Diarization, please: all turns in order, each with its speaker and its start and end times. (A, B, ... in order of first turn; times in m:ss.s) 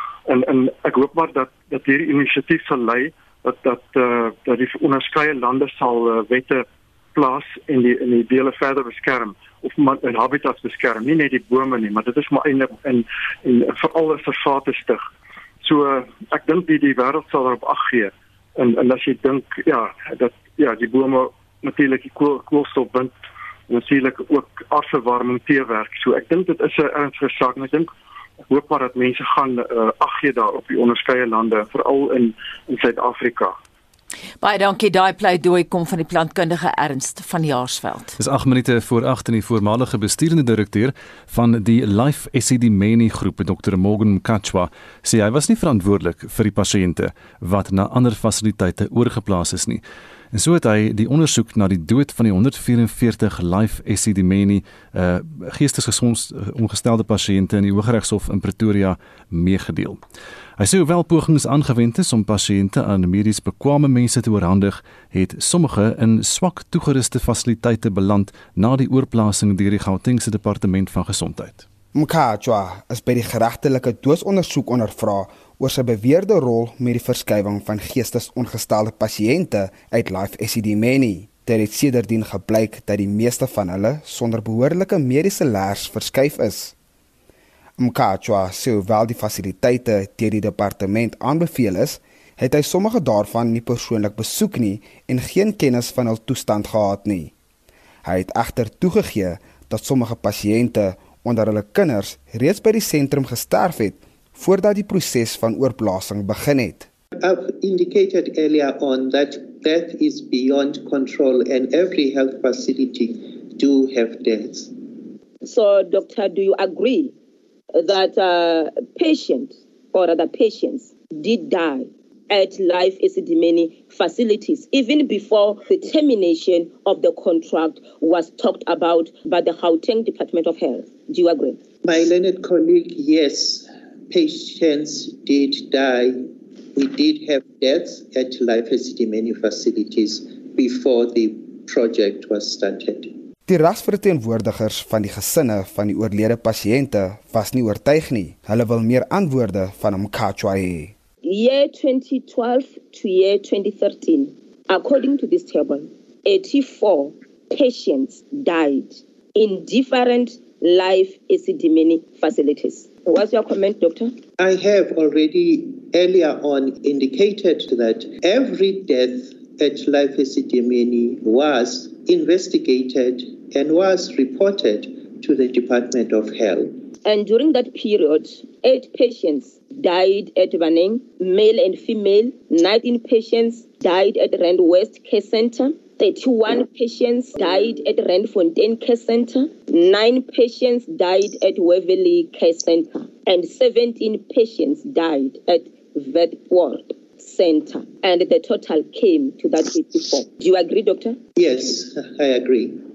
0:00.3-0:15.0 A
0:15.6-0:23.1 A
0:23.7-0:27.9 A
0:28.5-0:33.6 A
0:34.4-0:38.2 B
0:38.2-0:49.8 C
0:50.3-1:00.0 C
1:00.6-1:11.6 C
1:11.9-1:26.7 D
1:27.8-1:37.3 D
1:38.0-1:46.9 D
1:47.2-1:54.9 E
1:55.4-1:57.1 F
1:57.7-2:11.6 F
2:11.8-2:23.1 E
2:23.5-2:30.9 D
2:31.2-2:44.1 F
2:44.4-2:56.8 E
2:57.0-3:21.2 F
3:21.4-3:22.8 E